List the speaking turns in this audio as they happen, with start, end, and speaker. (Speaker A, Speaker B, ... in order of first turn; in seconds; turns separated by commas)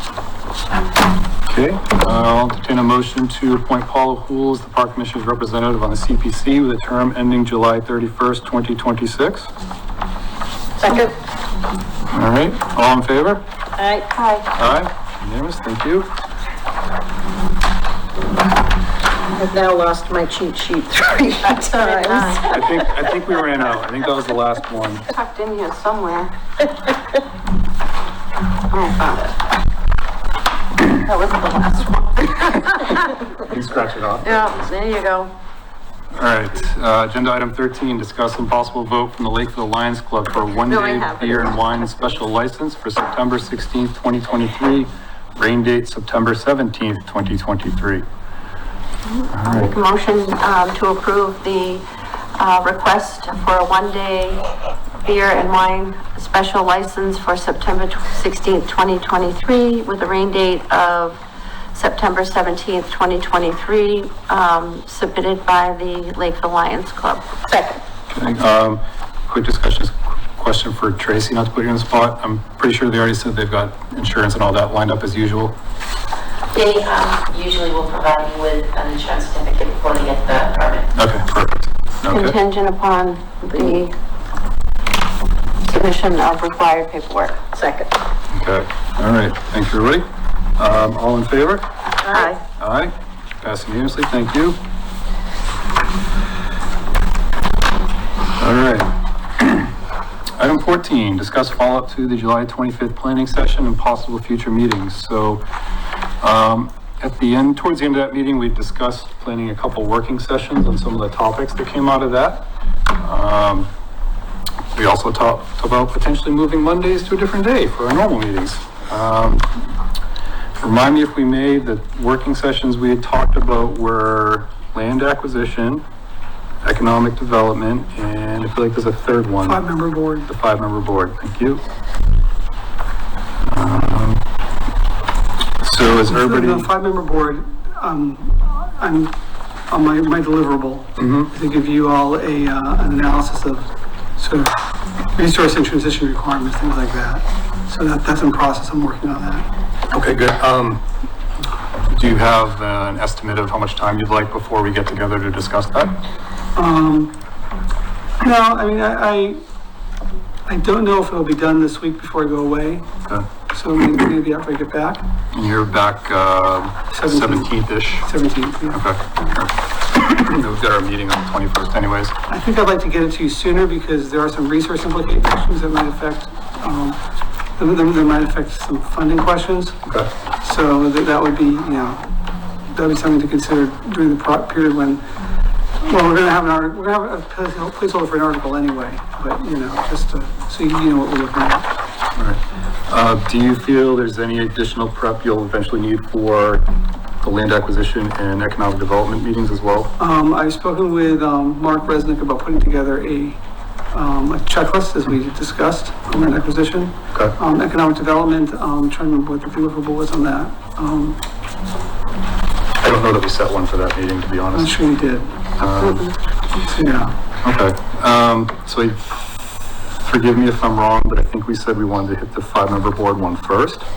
Speaker A: 1.5-9.5, Speaker B: 10.8-11.1, Speaker A: 12.1-13.4, Speaker B: 13.8-14.1, Speaker C: 14.2-14.5, Speaker A: 14.6-16.1, Speaker B: 19.4-22.8, Speaker C: 21.4-22.5, Speaker A: 22.5-25.1, Speaker C: 25.1-26.3, Speaker C: 28.7-29.4, Speaker C: 30.9-33.1, Speaker A: 33.5-34.6, Speaker C: 34.2-35.3, Speaker A: 36.1-48.1, Speaker B: 40.7-42.0, Speaker A: 49.3-49.8, Speaker C: 49.4-51.9, Speaker C: 52.4-54.4, Speaker C: 55.0-61.2, Speaker C: 61.7-67.3, Speaker B: 67.5-67.8, Speaker A: 68.1-75.6, Speaker C: 76.5-80.6, Speaker D: 76.8-80.9, Speaker A: 81.0-82.4, Speaker C: 82.1-83.9, Speaker C: 85.7-87.4, Speaker B: 87.5-87.9, Speaker A: 88.3-91.7, Speaker B: 92.0-92.4, Speaker A: 92.6-94.6, Speaker A: 98.4-99.7, Speaker A: 100.4-105.4, Speaker A: 106.2-113.7, Speaker A: 114.7-119.7, Speaker A: 120.6-125.8, Speaker A: 126.6-129.6, Speaker E: 129.4-130.3, Speaker A: 130.3-131.6, Speaker A: 133.4-134.2, Speaker A: 135.6-136.7, Speaker E: 136.1-139.1, Speaker E: 139.7-144.6, Speaker A: 141.0-141.3, Speaker E: 145.2-149.5, Speaker A: 149.9-150.8, Speaker A: 151.9-156.0, Speaker E: 156.6-157.2, Speaker E: 158.2-159.4, Speaker E: 160.5-162.9, Speaker E: 163.5-165.0, Speaker A: 165.3-168.1, Speaker E: 166.9-168.8, Speaker A: 168.7-172.1, Speaker E: 172.3-177.0, Speaker E: 177.6-179.8, Speaker A: 179.8-180.1, Speaker E: 180.4-182.1, Speaker E: 182.7-185.1, Speaker E: 185.8-191.7, Speaker A: 192.2-196.7, Speaker A: 197.2-199.9, Speaker E: 200.0-203.4, Speaker E: 203.9-211.2, Speaker A: 212.8-214.7, Speaker E: 214.5-215.4, Speaker A: 215.6-216.1, Speaker C: 215.8-216.2, Speaker E: 216.7-217.1, Speaker A: 217.4-219.3, Speaker A: 220.0-223.9